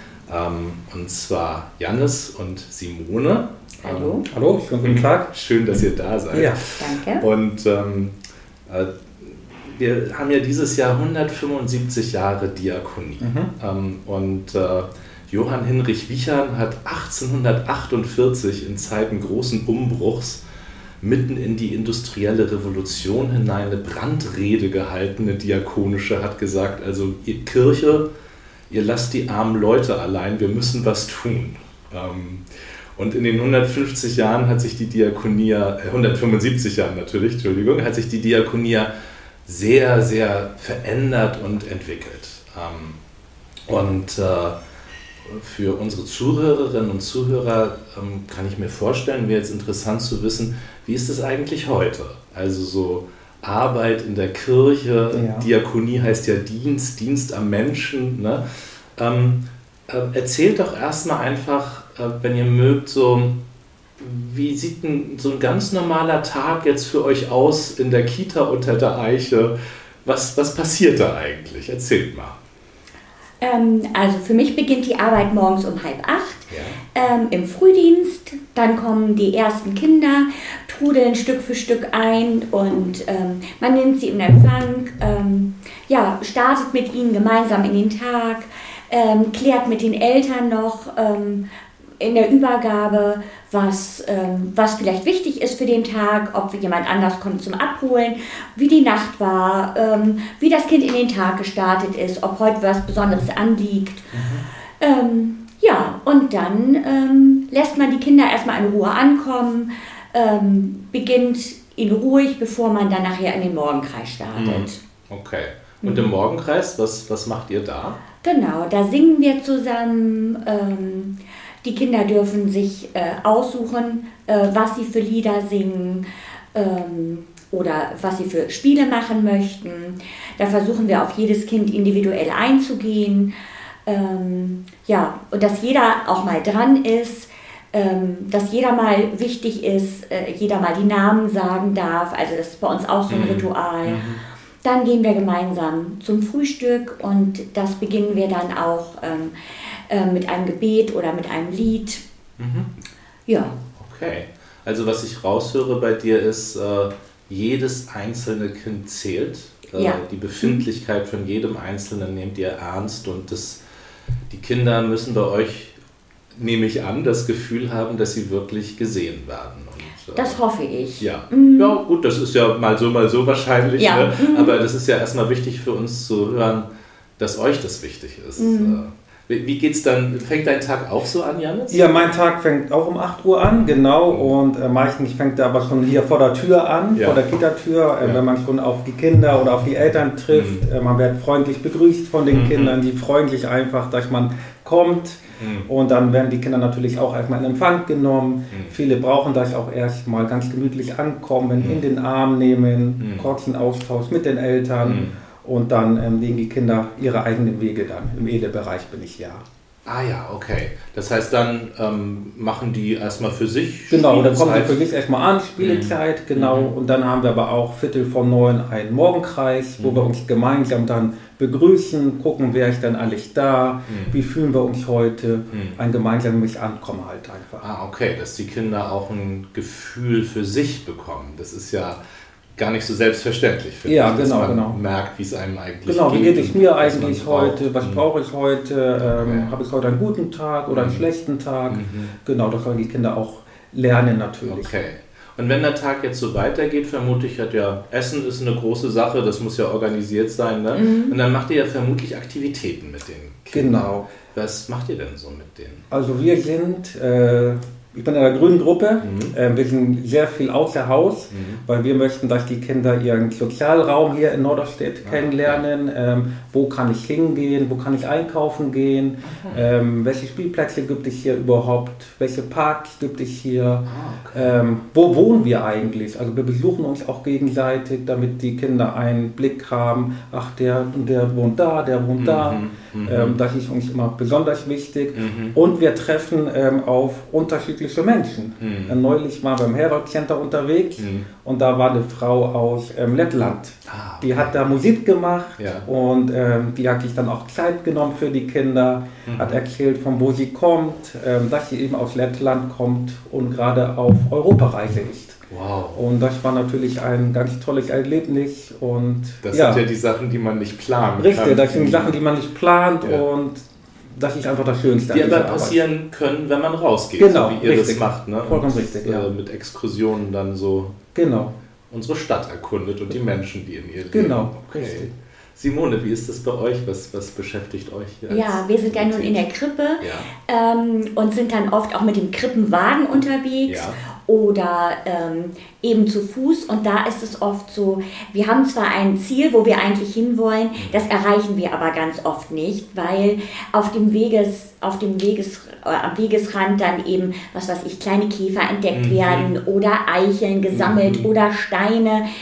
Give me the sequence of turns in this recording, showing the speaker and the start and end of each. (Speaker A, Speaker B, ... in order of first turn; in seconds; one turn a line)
Speaker A: 0.3-4.2
Speaker B: 3.8-4.2
Speaker C: 4.2-5.3
Speaker A: 4.8-8.2
Speaker C: 6.3-6.6
Speaker B: 6.8-7.2
Speaker A: 8.7-20.4
Speaker C: 13.2-13.5
Speaker A: 21.0-28.1
Speaker A: 28.7-32.4
Speaker A: 33.0-38.9
Speaker A: 39.5-43.0
Speaker A: 43.7-44.5
Speaker A: 45.3-58.4
Speaker C: 55.1-55.5
Speaker A: 59.0-63.4
Speaker A: 64.0-69.5
Speaker A: 70.0-72.3
Speaker B: 73.4-91.4
Speaker A: 76.5-76.8
Speaker B: 92.0-104.1
Speaker A: 104.1-104.4
Speaker B: 104.8-114.8
Speaker A: 114.3-118.0
Speaker B: 115.8-116.1
Speaker B: 118.2-133.3
Speaker B: 133.8-144.1
Speaker A: 143.1-144.2
Speaker B: 144.6-152.0
Speaker A: 152.4-152.7
Speaker B: 153.3-153.6
Speaker A: 153.8-163.6
Speaker B: 159.7-160.6
Speaker A: 164.3-165.8
Speaker A: 166.3-170.4
Speaker B: 170.1-171.8
Speaker A: 171.0-176.7
Speaker B: 173.8-174.6
Speaker A: 177.2-182.1
Speaker B: 178.4-178.8
Speaker C: 181.7-209.4
Speaker A: 183.5-184.3
Speaker A: 186.9-187.2
Speaker A: 190.3-190.7
Speaker A: 192.3-192.8
Speaker A: 195.4-195.7
Speaker A: 198.5-198.8
Speaker A: 201.6-201.9
Speaker A: 203.0-203.3
Speaker A: 204.8-205.2
Speaker A: 209.8-214.8
Speaker C: 213.9-227.6
Speaker A: 215.6-216.7
Speaker A: 219.8-220.1
Speaker A: 223.9-224.2
Speaker A: 225.5-225.8
Speaker A: 227.6-232.0
Speaker A: 232.6-238.1
Speaker C: 233.8-234.8
Speaker C: 235.8-244.7
Speaker A: 239.0-239.5
Speaker A: 240.7-241.1
Speaker A: 241.7-242.1
Speaker A: 244.4-255.8
Speaker B: 250.7-251.2
Speaker C: 253.5-254.1
Speaker C: 255.9-305.4
Speaker A: 259.0-259.3
Speaker A: 261.3-261.6
Speaker A: 265.0-265.6
Speaker A: 269.2-269.7
Speaker A: 273.9-274.5
Speaker A: 282.2-283.4
Speaker A: 285.1-285.6
Speaker A: 288.6-289.0
Speaker A: 291.0-291.3
Speaker A: 293.9-294.7
Speaker A: 295.6-295.9
Speaker A: 299.2-299.6
Speaker A: 305.5-306.0
Speaker C: 305.9-309.8
Speaker A: 309.4-312.2
Speaker C: 311.2-315.8
Speaker A: 315.1-321.0
Speaker C: 317.2-319.3
Speaker C: 321.1-321.5
Speaker A: 321.9-329.4
Speaker C: 324.1-325.1
Speaker B: 328.3-352.2
Speaker A: 330.0-330.3
Speaker A: 333.7-334.0
Speaker A: 340.8-341.0
Speaker A: 348.9-349.5
Speaker A: 350.7-351.3